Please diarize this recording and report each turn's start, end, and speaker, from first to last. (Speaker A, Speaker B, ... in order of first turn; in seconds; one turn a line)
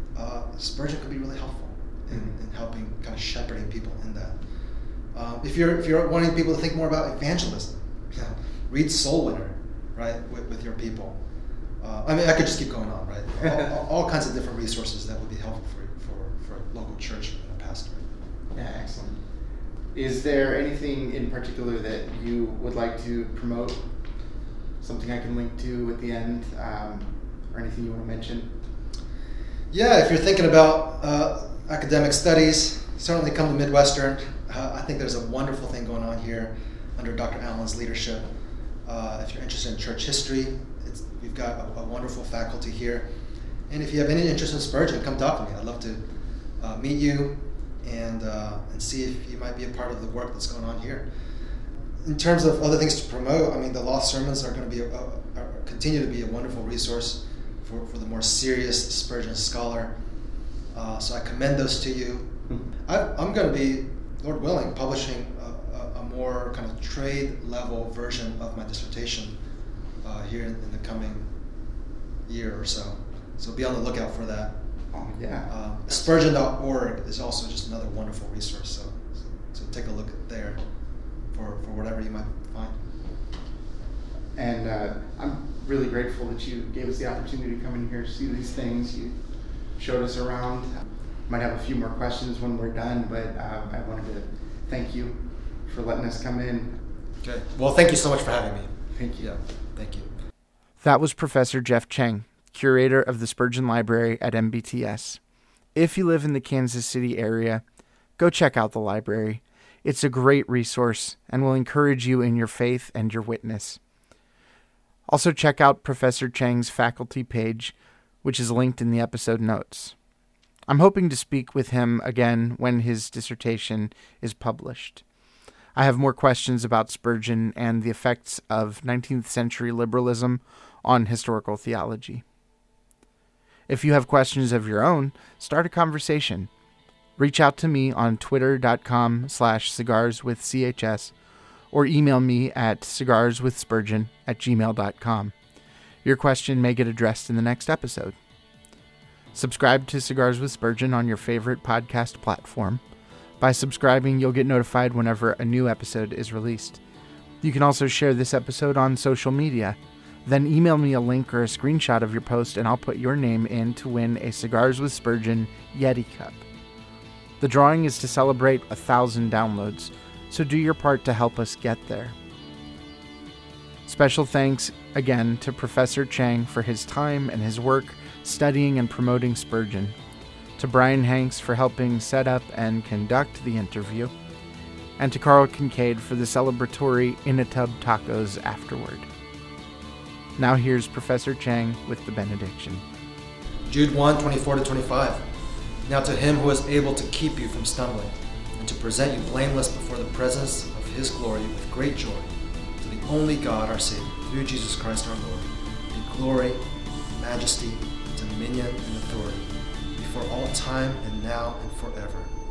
Speaker A: 0.1-4.4
Speaker B: 2.1-2.4
Speaker A: 5.1-11.2
Speaker A: 11.8-18.1
Speaker B: 18.5-19.2
Speaker B: 19.9-23.9
Speaker B: 24.8-28.6
Speaker A: 29.7-38.3
Speaker A: 38.9-43.1
Speaker A: 43.7-46.0
Speaker A: 46.6-51.1
Speaker A: 52.0-59.9
Speaker A: 60.7-69.3
Speaker A: 70.0-71.3
Speaker A: 72.3-74.6
Speaker B: 74.9-75.5
Speaker A: 75.5-80.6
Speaker A: 81.3-82.8
Speaker B: 84.3-89.2
Speaker B: 89.8-96.8
Speaker A: 97.2-100.1
Speaker B: 98.9-99.3
Speaker B: 100.8-105.2
Speaker B: 105.8-107.6
Speaker B: 108.2-113.8
Speaker B: 115.1-120.0
Speaker B: 120.7-125.0
Speaker B: 125.8-132.2
Speaker B: 133.7-136.5
Speaker B: 137.2-141.1
Speaker B: 141.7-145.3
Speaker B: 146.0-148.2
Speaker B: 149.3-152.8
Speaker B: 153.4-156.8
Speaker B: 157.4-166.4
Speaker B: 167.4-172.2
Speaker B: 173.9-180.0
Speaker B: 180.6-184.1
Speaker B: 185.0-189.1
Speaker B: 190.4-192.8
Speaker A: 193.7-195.2
Speaker A: 195.9-206.6
Speaker A: 207.2-212.3